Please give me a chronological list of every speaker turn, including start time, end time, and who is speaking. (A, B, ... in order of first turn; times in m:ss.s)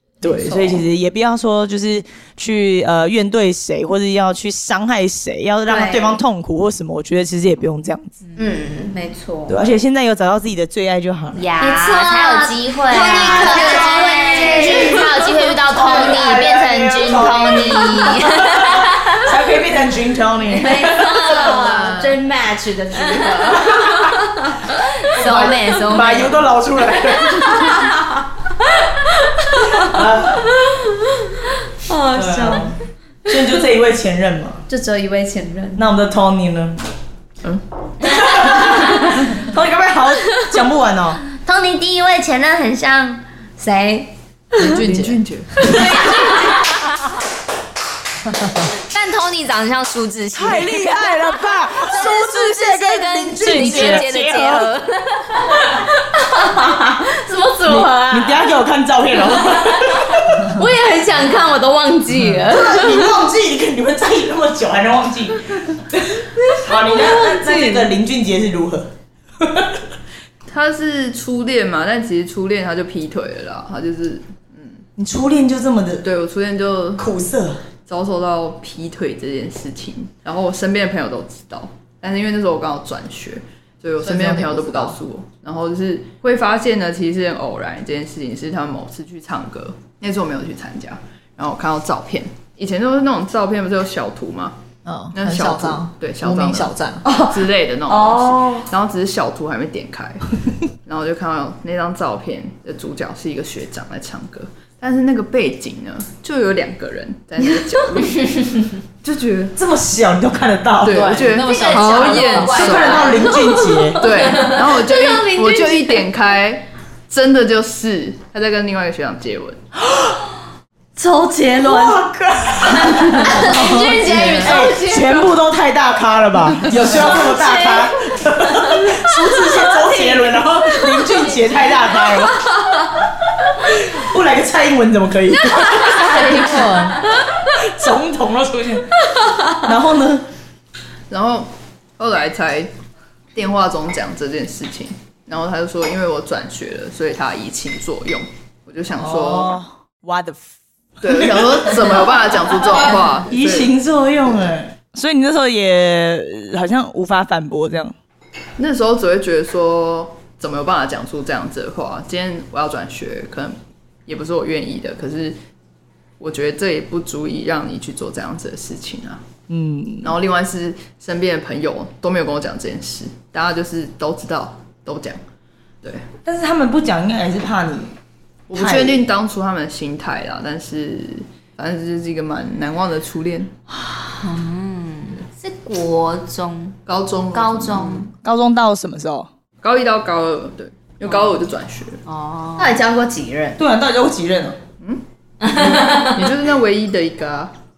0:00.2-0:08.1 A
0:00.2-0:00.8 B
0:05.7-0:06.2 B
0:08.4-0:09.6 B
0:09.5-0:11.4 A
0:11.3-0:19.2 C
0:11.6-0:15.2 B
0:12.9-0:15.2 A
0:15.7-0:21.3 A
0:20.6-0:23.7 B
0:20.6-0:21.9 C
0:21.5-0:22.0 D
0:22.9-0:24.5 C
0:25.0-0:26.4 C
0:25.2-0:27.9 A
0:29.8-0:30.5 A
0:31.8-0:32.7 C
0:32.1-0:34.6 A
0:34.7-0:35.8 B
0:35.8-0:36.8 A
0:38.0-0:41.2 A
0:38.2-0:38.8 C
0:41.4-0:44.1 B
0:44.6-0:45.9 D
0:44.6-0:45.2 E
0:45.7-0:46.9 C
0:48.7-0:55.6 C
0:50.3-0:54.7 A
0:53.6-0:54.0 E
0:56.2-0:58.5 B
0:57.6-1:00.3 A
1:00.5-1:03.1 B
1:02.5-1:08.9 A
1:09.4-1:09.8 A
1:10.5-1:14.8 D
1:15.0-1:16.0 A
1:16.0-1:17.0 D
1:17.0-1:17.6 A
1:17.9-1:34.6 D
1:24.0-1:24.9 E
1:34.8-1:37.0 E
1:35.1-1:40.3 D
1:37.0-1:38.7 A
1:40.8-1:48.3 D
1:49.0-1:49.5 D
1:49.6-1:51.1 A
1:50.8-1:53.3 D
1:50.9-1:53.2 E
1:51.3-1:54.6 C
1:52.4-1:54.0 A
1:54.0-1:59.6 D
1:54.9-1:55.8 B
1:59.9-2:00.2 A
2:01.0-2:01.5 B
2:01.6-2:12.4 A
2:01.6-2:02.0 C
2:03.1-2:03.4 D
2:03.2-2:05.2 B
2:03.2-2:04.6 C
2:04.1-2:04.4 D
2:06.7-2:07.2 D
2:07.2-2:07.8 C
2:09.8-2:10.2 C
2:13.6-2:16.3 A
2:15.6-2:17.0 C
2:16.0-2:17.0 E
2:17.5-2:18.9 A
2:19.5-2:20.3 A
2:21.1-2:22.7 D
2:23.3-2:29.6 D
2:29.0-2:30.4 A
2:31.0-2:33.7 D
2:31.0-2:37.9 A
2:38.6-2:43.5 D
2:44.1-2:45.4 D
2:46.2-2:49.2 D
2:49.5-2:50.1 A
2:50.0-2:55.2 D
2:56.2-2:57.9 A
2:58.5-3:03.5 D
2:58.5-2:59.0 A
3:04.1-3:06.8 C
3:06.9-3:08.1 D
3:07.3-3:08.1 C
3:08.2-3:09.3 A
3:09.6-3:12.0 D
3:12.0-3:12.8 C
3:12.6-3:13.6 B
3:13.6-3:14.6 A
3:14.8-3:17.5 D
3:15.4-3:16.2 C